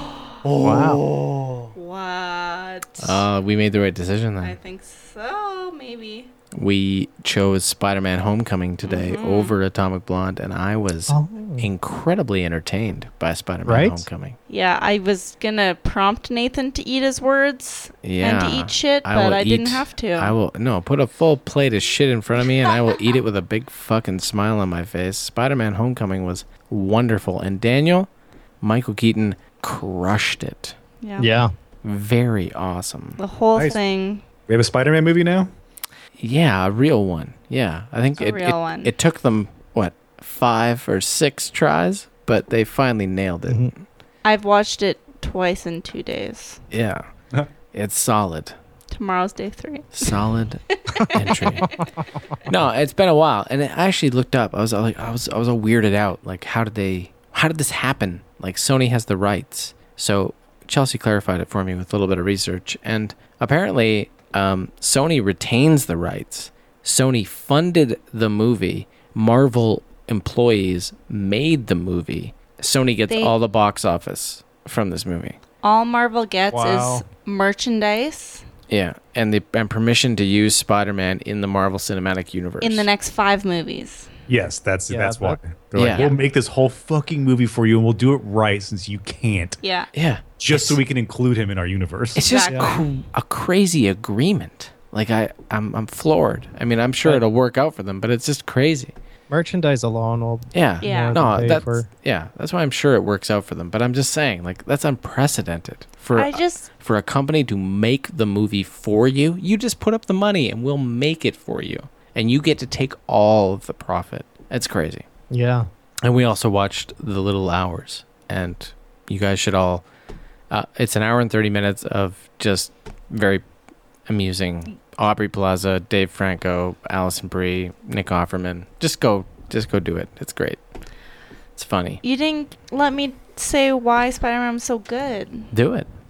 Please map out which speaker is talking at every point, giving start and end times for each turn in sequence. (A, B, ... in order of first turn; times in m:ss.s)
0:00.5-0:01.6 A
0:00.6-0:01.0 B
0:00.6-0:01.0 C
0:01.8-0:03.2 D
0:03.0-0:04.5 A
0:04.4-0:06.3 D
0:06.5-0:14.4 A
0:08.8-0:09.5 D
0:11.1-0:11.7 B
0:13.6-0:14.0 B
0:14.5-0:20.3 D
0:18.0-0:30.8 A
0:31.0-0:31.3 D
0:31.2-0:31.5 B
0:31.8-0:33.2 A
0:33.2-0:34.2 D
0:34.5-0:35.5 C
0:36.2-0:43.8 A
0:38.2-0:38.9 D
0:43.5-0:43.7 B
0:44.2-0:46.6 D
0:46.7-0:47.1 A
0:47.7-0:48.6 A
0:48.9-0:50.2 D
0:49.9-0:51.7 A
0:52.5-1:15.4 A
1:13.1-1:13.3 D
1:15.6-1:18.4 D
1:16.5-1:17.0 B
1:18.7-1:22.9 A
1:22.6-1:24.1 D
1:24.3-1:29.6 C
1:24.9-1:25.4 B
1:25.7-1:26.1 A
1:29.6-1:29.9 D
1:29.9-1:30.8 A
1:30.4-1:32.3 C
1:32.1-1:38.9 A
1:32.3-1:32.9 D
1:39.3-1:41.9 B
1:40.5-1:55.0 A
1:40.8-1:41.1 D
1:46.2-1:46.7 D
1:55.3-1:55.7 B
1:56.0-1:59.8 A
2:00.5-2:03.4 A
2:04.1-2:10.6 A
2:11.6-2:12.0 A
2:12.0-2:15.5 D
2:15.5-2:15.9 A